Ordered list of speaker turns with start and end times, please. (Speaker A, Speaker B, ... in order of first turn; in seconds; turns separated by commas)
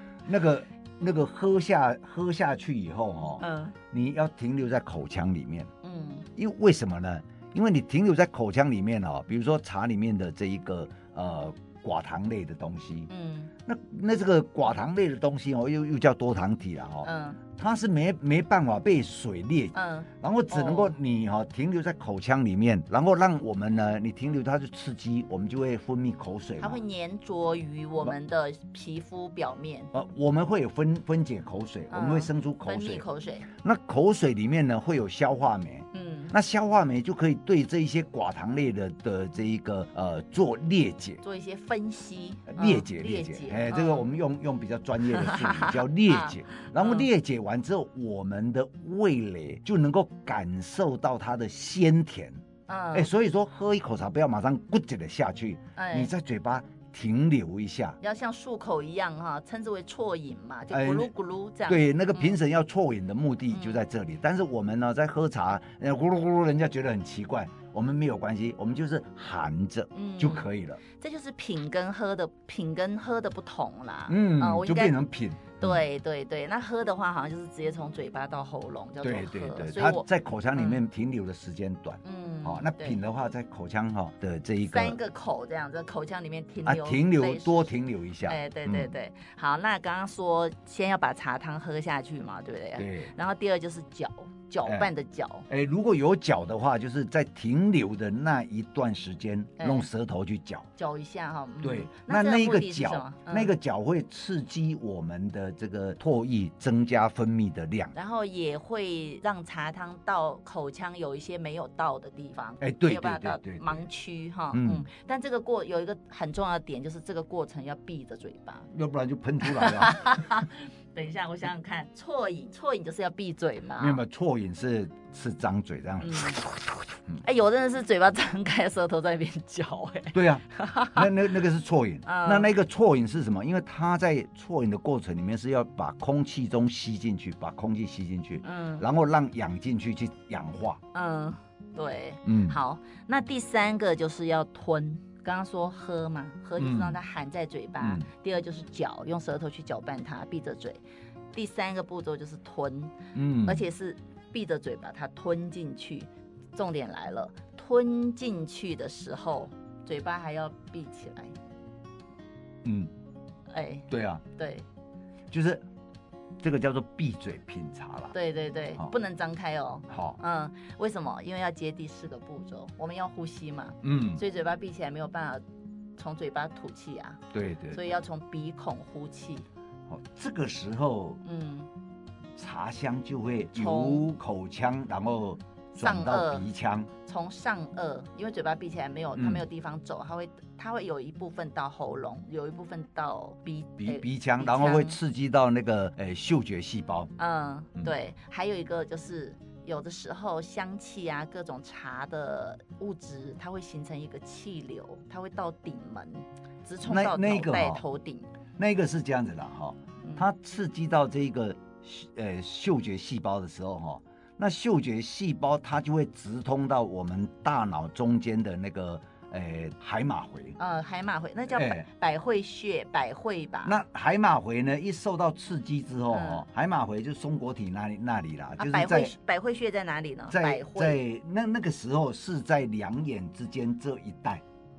Speaker A: 0.2-5.7, Speaker B: 3.4-3.8, Speaker B: 5.8-6.3, Speaker A: 6.4-13.1, Speaker B: 13.1-13.5, Speaker A: 13.7-26.8, Speaker B: 17.0-17.4, Speaker B: 19.7-20.9, Speaker B: 26.6-29.9, Speaker A: 29.9-41.2, Speaker B: 31.9-33.5, Speaker B: 35.9-36.3, Speaker B: 41.2-44.1, Speaker A: 42.5-52.4, Speaker B: 45.1-47.1, Speaker B: 52.7-53.1, Speaker A: 52.9-58.0, Speaker B: 55.8-56.1, Speaker B: 58.0-62.4, Speaker A: 60.7-61.1, Speaker A: 61.7-70.8, Speaker B: 63.5-63.8, Speaker B: 69.9-75.0, Speaker A: 74.1-75.8, Speaker B: 75.6-80.8, Speaker A: 79.0-85.0, Speaker B: 82.0-83.0, Speaker B: 84.7-87.7, Speaker A: 86.6-88.9, Speaker B: 88.2-95.5, Speaker A: 92.8-93.1, Speaker A: 94.6-94.9, Speaker A: 95.5-100.7, Speaker B: 99.6-99.9, Speaker B: 100.8-103.5, Speaker A: 101.6-107.9, Speaker B: 107.9-118.7, Speaker A: 112.6-113.8, Speaker A: 114.5-114.9, Speaker A: 118.7-120.4, Speaker B: 119.4-124.0, Speaker A: 123.8-127.2, Speaker B: 126.0-126.4, Speaker B: 127.2-131.1, Speaker A: 130.1-140.8, Speaker B: 132.0-132.5, Speaker B: 138.4-138.8, Speaker B: 140.9-150.8, Speaker A: 142.2-142.6, Speaker A: 146.6-147.0, Speaker A: 147.8-148.1, Speaker B: 151.3-161.3, Speaker A: 153.1-153.6, Speaker A: 162.6-162.9, Speaker B: 163.5-164.6, Speaker A: 163.9-164.2, Speaker A: 165.3-165.6, Speaker A: 166.4-168.1, Speaker B: 168.1-175.4, Speaker A: 169.9-170.2, Speaker A: 173.8-174.2, Speaker B: 176.0-179.5, Speaker A: 177.3-177.9, Speaker A: 179.9-181.2, Speaker B: 181.2-181.7, Speaker A: 182.4-186.9, Speaker B: 183.5-184.1, Speaker B: 185.7-186.5, Speaker B: 187.0-195.0, Speaker A: 189.2-189.4, Speaker A: 193.8-197.1, Speaker B: 197.2-208.3, Speaker A: 206.8-207.8, Speaker A: 208.6-220.6, Speaker B: 220.6-223.8, Speaker A: 221.5-221.8, Speaker A: 223.6-229.1, Speaker B: 226.1-226.4, Speaker B: 228.6-231.0, Speaker A: 230.3-234.4